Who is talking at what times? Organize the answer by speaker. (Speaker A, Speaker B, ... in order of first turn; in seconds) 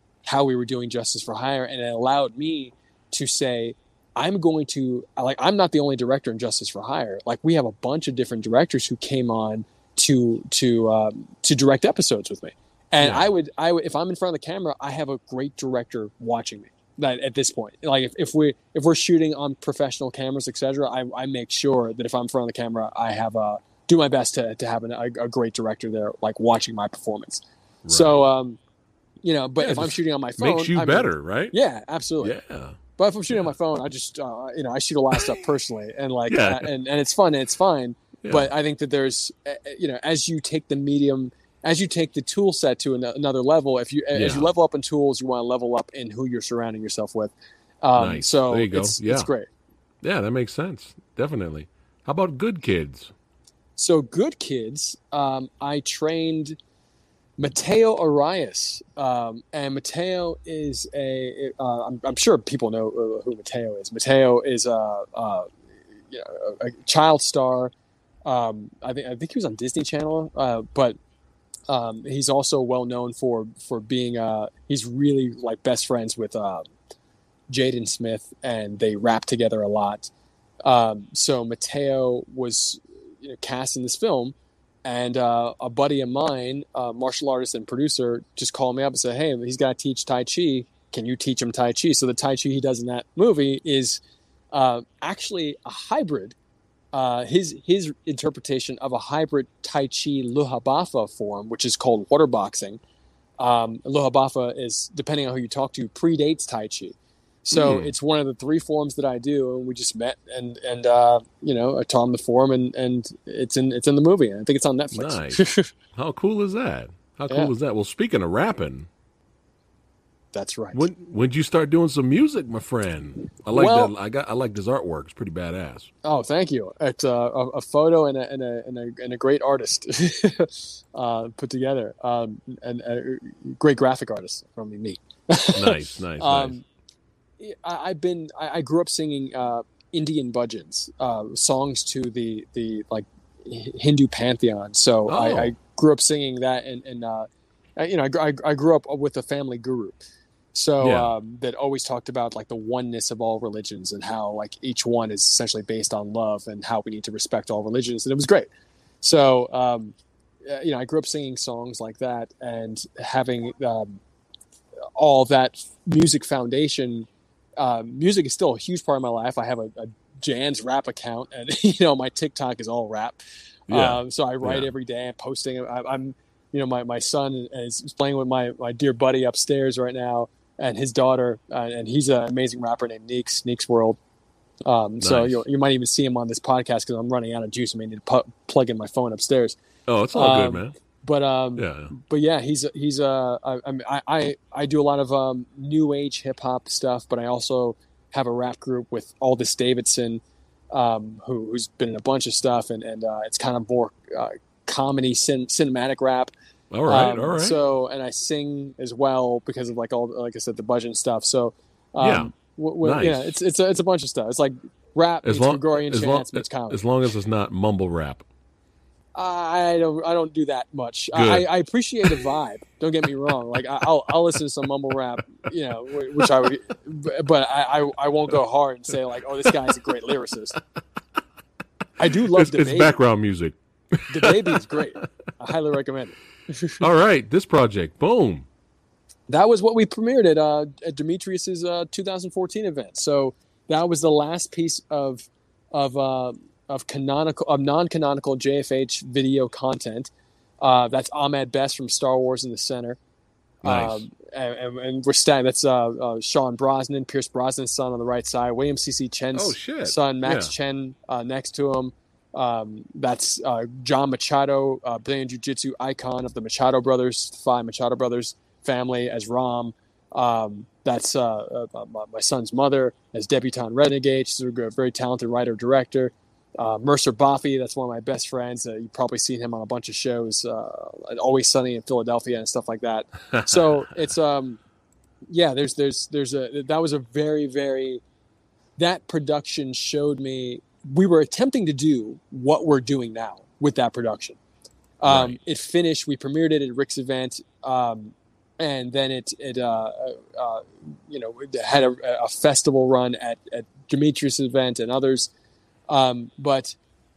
Speaker A: 0.2-28.6, 29.2-32.4, 33.0-49.5, 53.8-56.6, 57.4-65.5, 66.1-67.7, 68.2-71.0, 71.7-76.7, 77.5-80.1, 80.6-94.0, 94.5-96.3, 96.9-102.8, 103.4-115.7, 120.3-120.8, 123.5-123.9, 126.0-136.7, 137.4-150.0, 150.5-158.5, 159.0-164.0, 165.0-173.2, 173.7-184.0, 184.6-189.6, 190.1-200.2, 200.7-206.3, 206.8-216.8, 219.1-230.6, 232.0-233.0, 234.1-236.8, 239.3-253.0, 253.6-284.6, 285.3-288.0, 288.8-294.4, 295.0-305.3, 305.9-306.8
Speaker B: 13.0-13.3, 27.8-28.2, 29.6-31.6, 32.2-32.8, 35.1-35.4, 36.3-36.7, 38.2-38.5, 44.1-44.5, 48.0-49.3, 50.0-53.1, 107.5-107.9, 114.9-118.9, 120.7-125.9, 135.5-136.6, 145.1-145.5, 150.8-151.1, 173.7-174.7, 185.0-185.4, 189.9-190.7, 191.6-191.9, 206.7-207.6, 212.0-213.3, 215.2-218.2, 221.1-221.5, 232.3-234.6, 236.8-238.5, 253.6-254.0, 259.3-260.5, 283.3-283.8, 295.0-295.4